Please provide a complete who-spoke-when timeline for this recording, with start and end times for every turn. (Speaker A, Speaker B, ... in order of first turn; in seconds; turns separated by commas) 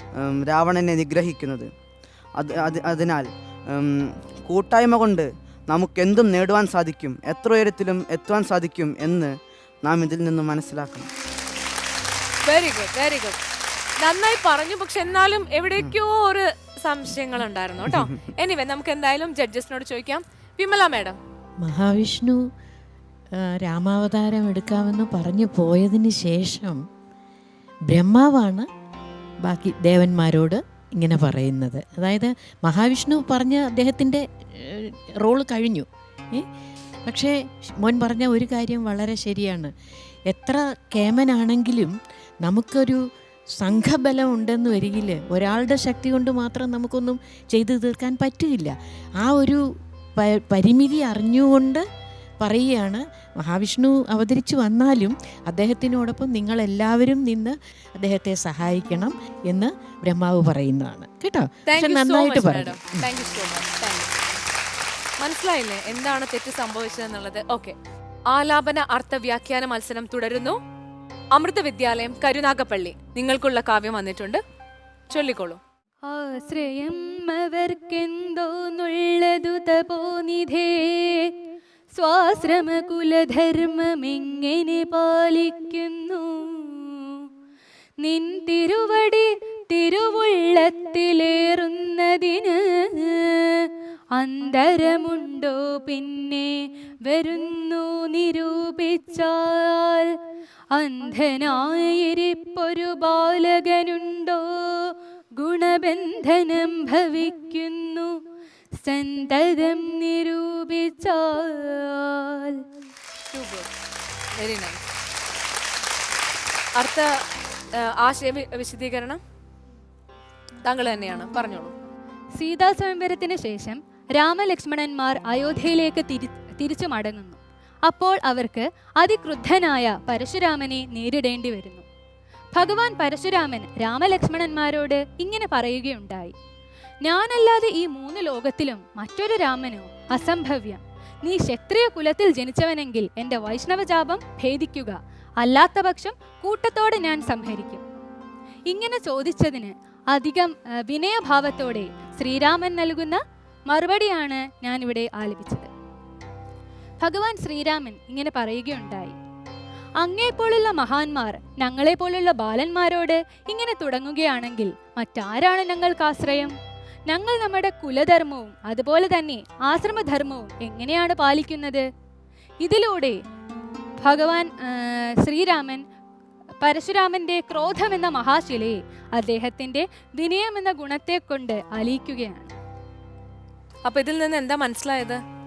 Speaker A: 0.2-1.7, Speaker A: 2.4-9.3, Speaker A: 9.8-11.1, Speaker B: 12.5-13.4, Speaker B: 14.0-21.2, Speaker C: 21.6-22.4, Speaker C: 23.4-26.8, Speaker C: 27.9-28.7, Speaker C: 29.4-36.5, Speaker C: 37.1-39.7, Speaker C: 40.3-49.6, Speaker C: 50.2-51.9, Speaker C: 52.4-63.0, Speaker B: 61.7-64.2, Speaker B: 65.2-67.8, Speaker B: 68.3-70.6, Speaker B: 71.3-74.4, Speaker B: 75.1-75.6, Speaker D: 76.1-81.3, Speaker D: 82.0-87.1, Speaker D: 88.0-100.1, Speaker D: 100.8-108.1, Speaker D: 108.8-112.6, Speaker B: 113.3-113.7, Speaker B: 114.3-114.8, Speaker B: 116.8-117.2, Speaker B: 117.8-119.2, Speaker B: 120.6-121.7, Speaker D: 122.4-131.8, Speaker D: 132.6-136.3, Speaker D: 137.1-147.8, Speaker D: 148.7-155.7, Speaker D: 157.0-159.2, Speaker D: 160.0-166.6, Speaker D: 167.1-171.9, Speaker D: 172.6-173.2, Speaker D: 174.0-175.8, Speaker D: 176.6-182.5, Speaker B: 183.8-185.2